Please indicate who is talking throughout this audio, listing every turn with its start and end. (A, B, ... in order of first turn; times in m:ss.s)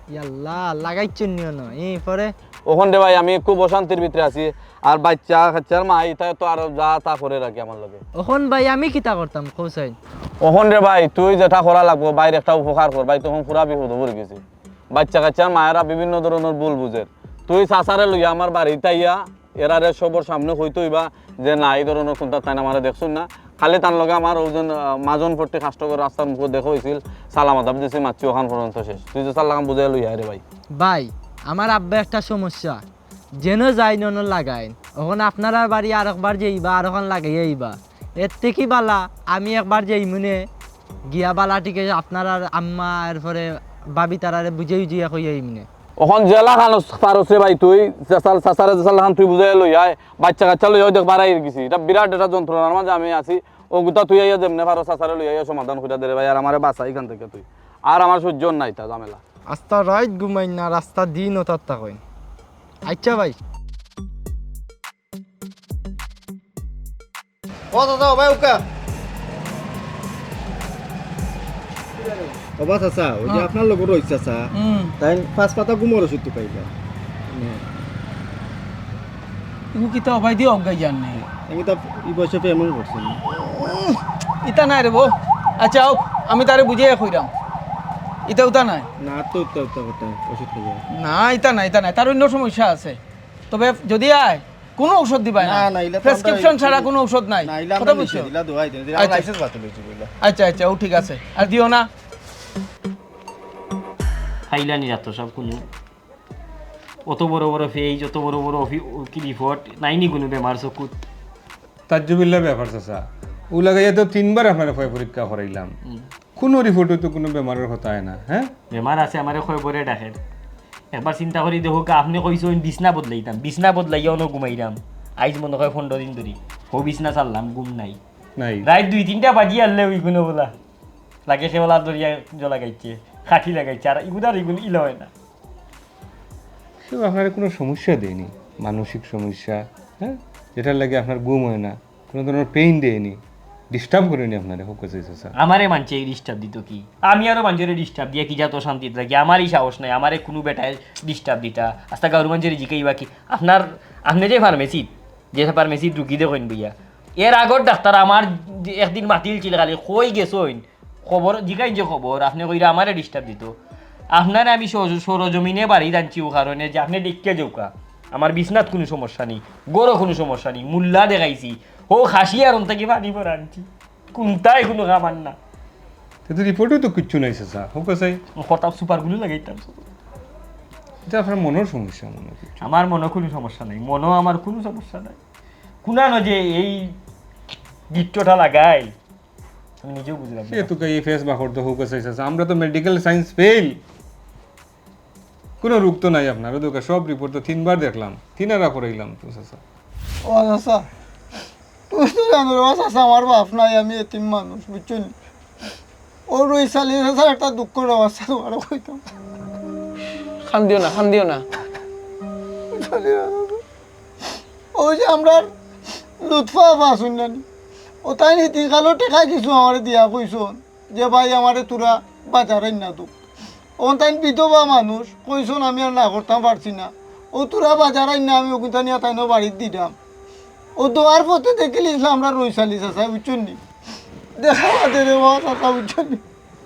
0:00.1-0:02.3 A
0:02.7-0:08.0 B
0:08.2-0:10.0 A
0:10.4-0:14.4 B
0:14.9-0:30.4 B
0:30.7-0:32.8 A
0:33.4-0:40.5 A
0:41.1-0:45.7 A
0:46.0-0:59.2 B
0:59.5-1:02.0 A
1:02.9-1:03.4 A
1:07.7-1:08.6 C
1:12.6-1:14.5 C
1:14.5-1:14.9 D
1:15.0-1:16.7 C
1:17.3-1:17.6 C
1:19.7-1:21.3 D
1:21.5-1:23.2 C
1:23.4-1:27.3 D
1:28.3-1:28.9 D
1:29.0-1:30.8 C
1:30.9-1:33.0 D
1:33.5-1:38.3 D
1:35.4-1:36.9 C
1:37.4-1:40.1 C
1:39.0-1:39.3 D
1:40.2-1:41.9 D
1:44.5-1:45.6 E
1:47.1-1:51.0 E
1:51.9-1:55.7 F
1:56.4-1:58.5 F
1:58.7-2:00.2 E
2:00.9-2:08.0 E
2:08.4-2:08.7 F
2:08.6-2:10.5 E
2:11.3-2:15.1 E
2:16.9-2:23.2 F
2:23.7-2:25.3 F
2:25.4-2:43.6 E
2:44.1-2:55.4 E
2:56.3-2:58.2 F
2:58.4-2:59.9 E
3:01.1-3:02.5 F
3:02.6-3:05.2 E
3:05.8-3:07.0 E
3:07.9-3:08.9 E
3:09.8-3:10.7 E
3:10.5-3:13.8 F
3:15.6-3:19.6 F
3:20.3-3:20.9 G
3:21.9-3:25.1 G
3:26.3-3:29.0 G
3:30.5-3:31.4 D
3:32.7-3:33.6 G
3:34.8-3:35.5 G
3:36.2-3:37.4 G
3:38.0-3:43.1 G
3:43.8-3:49.9 G
3:50.8-3:53.6 G
3:54.4-3:56.2 G